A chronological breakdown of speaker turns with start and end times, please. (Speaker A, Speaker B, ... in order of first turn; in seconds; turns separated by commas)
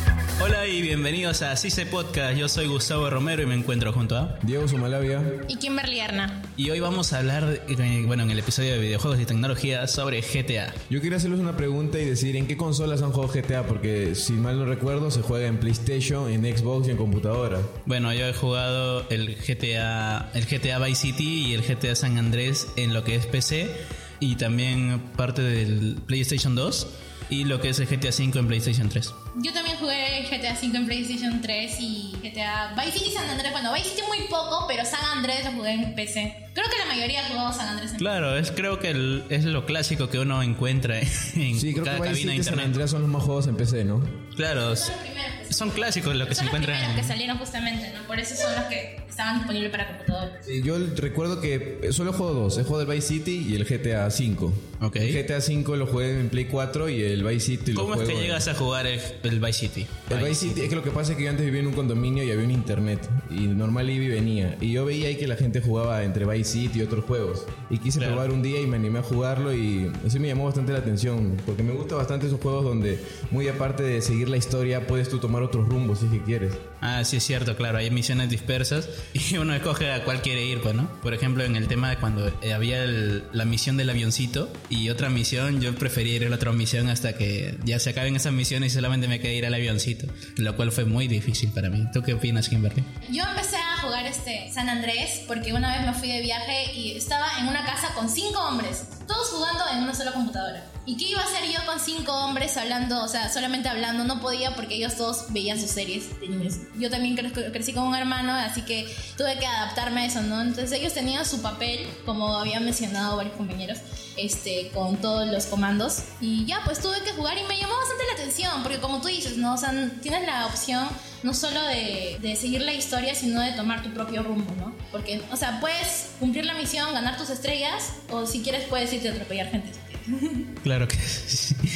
Speaker A: 0.4-4.4, Speaker B: 4.4-5.5, Speaker C: 5.5-6.4, Speaker A: 6.6-10.8, Speaker B: 10.9-17.7, Speaker A: 17.9-29.1, Speaker C: 29.3-38.1, Speaker A: 38.0-42.8, Speaker B: 41.5-44.2, Speaker A: 44.4-44.9, Speaker C: 44.6-50.4, Speaker A: 45.5-47.2, Speaker B: 50.5-58.5, Speaker A: 54.8-55.2, Speaker A: 57.7-60.7, Speaker B: 60.1-76.7, Speaker A: 67.9-68.3, Speaker A: 76.8-92.9, Speaker C: 93.0-130.5, Speaker A: 130.6-131.6